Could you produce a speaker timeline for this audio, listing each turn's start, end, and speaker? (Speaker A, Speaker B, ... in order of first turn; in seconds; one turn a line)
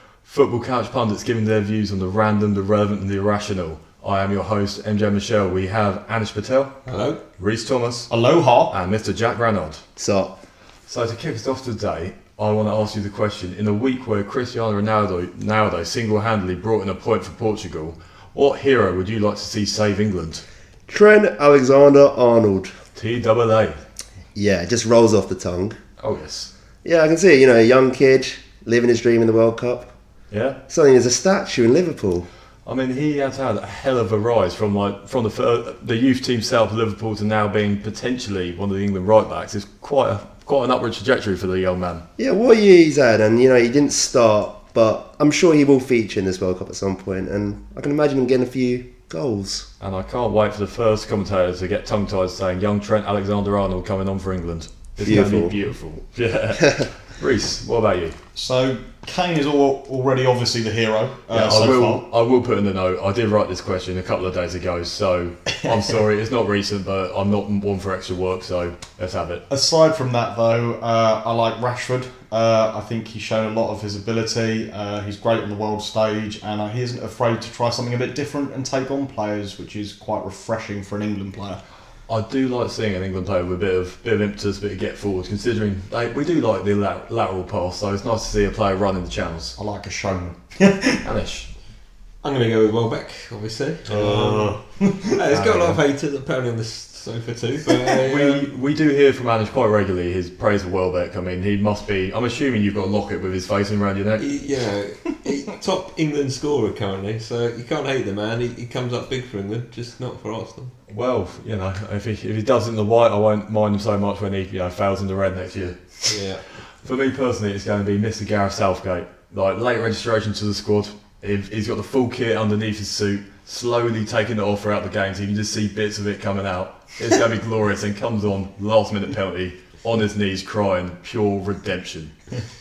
Speaker A: 0.2-8.1
Speaker B: 6.8-7.2
Speaker C: 8.1-8.7
Speaker A: 8.7-9.8
Speaker D: 10.0-10.3
Speaker A: 10.9-20.4
Speaker D: 20.9-22.7
Speaker A: 22.9-23.8
Speaker D: 24.3-25.8
Speaker A: 26.0-26.5
Speaker D: 26.8-29.9
Speaker A: 30.3-30.6
Speaker D: 30.7-32.3
Speaker A: 32.6-42.0
Speaker D: 42.2-49.7
Speaker A: 49.8-58.1
Speaker D: 55.0-55.5
Speaker C: 58.3-62.0
Speaker A: 61.3-69.4
Speaker C: 69.5-81.6
Speaker A: 82.1-89.5
Speaker C: 89.5-91.0
Speaker A: 91.0-91.5
Speaker B: 92.2-98.5
Speaker C: 93.9-95.8
Speaker A: 97.9-104.2
Speaker B: 104.2-110.7
Speaker A: 110.9-116.2
Speaker B: 116.0-116.4
Speaker A: 116.8-132.1